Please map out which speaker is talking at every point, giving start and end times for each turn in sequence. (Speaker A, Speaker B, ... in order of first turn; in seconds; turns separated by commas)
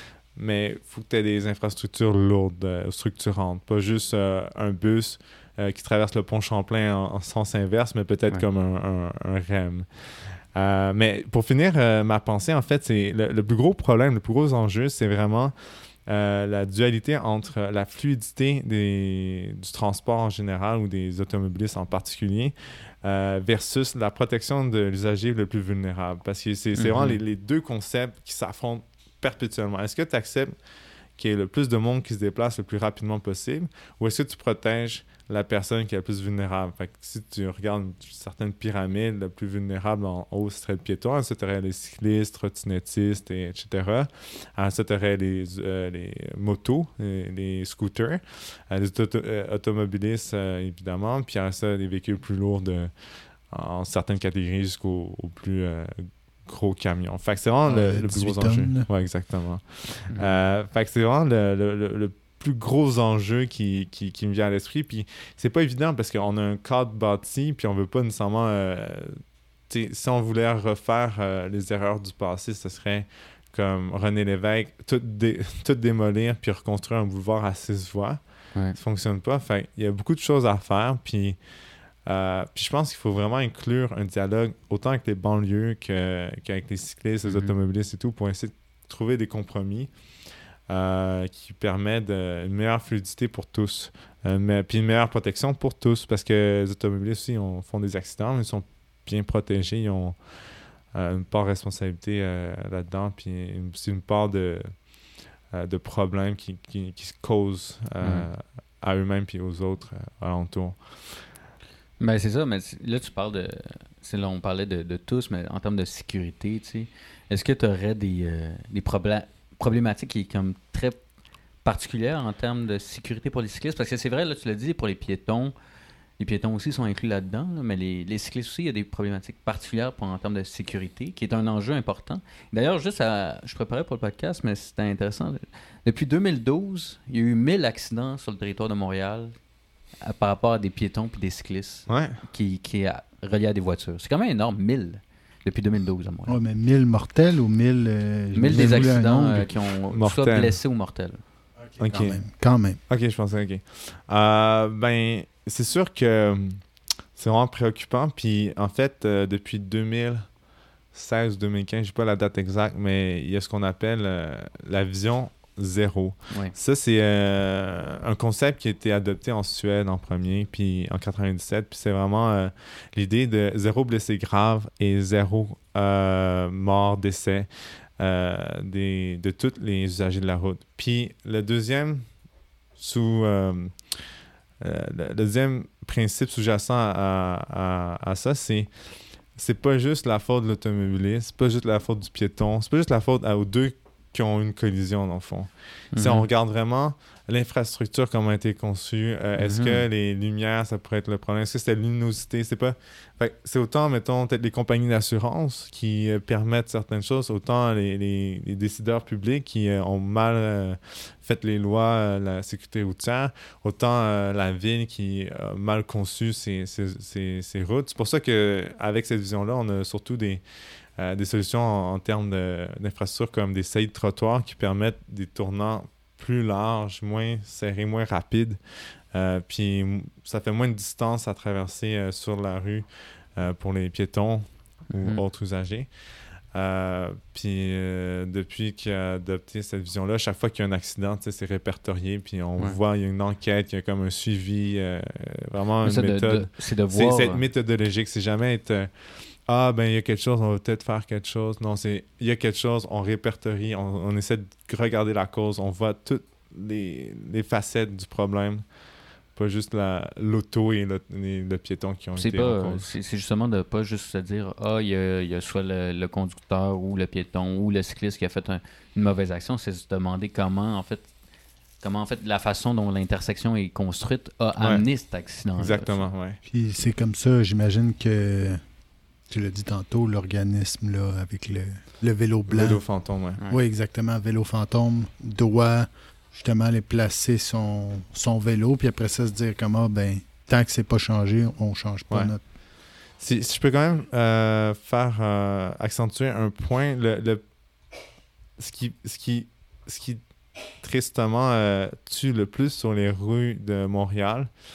Speaker A: 0.3-15.5, Speaker A: 16.1-30.5, Speaker B: 26.8-27.2, Speaker A: 31.2-52.9, Speaker A: 53.5-78.2, Speaker C: 57.7-58.9, Speaker B: 60.1-60.4, Speaker A: 78.8-81.4, Speaker A: 82.1-89.9, Speaker B: 87.2-87.5, Speaker A: 90.7-100.2, Speaker A: 100.9-104.7, Speaker A: 105.5-110.8, Speaker B: 108.0-108.3, Speaker B: 112.0-121.0, Speaker B: 121.6-125.5, Speaker B: 126.2-139.4, Speaker B: 140.0-146.4, Speaker A: 141.9-142.2, Speaker C: 146.3-149.5, Speaker B: 148.3-151.2, Speaker A: 148.5-148.9, Speaker A: 149.9-150.6, Speaker C: 151.6-152.8, Speaker A: 151.8-152.2, Speaker A: 152.9-156.6, Speaker A: 157.2-160.3, Speaker A: 160.9-182.1, Speaker A: 182.8-183.7, Speaker A: 184.6-188.7, Speaker A: 189.4-220.4, Speaker B: 195.9-196.3, Speaker B: 199.4-199.8, Speaker A: 221.0-228.6, Speaker A: 229.1-235.9, Speaker B: 234.9-235.2, Speaker A: 236.5-248.9, Speaker B: 245.8-247.4, Speaker A: 249.5-258.6, Speaker A: 259.4-262.9, Speaker B: 262.2-271.1, Speaker B: 271.8-276.0, Speaker A: 274.6-274.9, Speaker A: 275.6-276.4, Speaker C: 276.5-278.6, Speaker C: 279.3-282.8, Speaker A: 282.5-283.4, Speaker C: 283.5-292.4, Speaker A: 293.2-297.4, Speaker A: 298.6-300.2, Speaker A: 300.8-304.5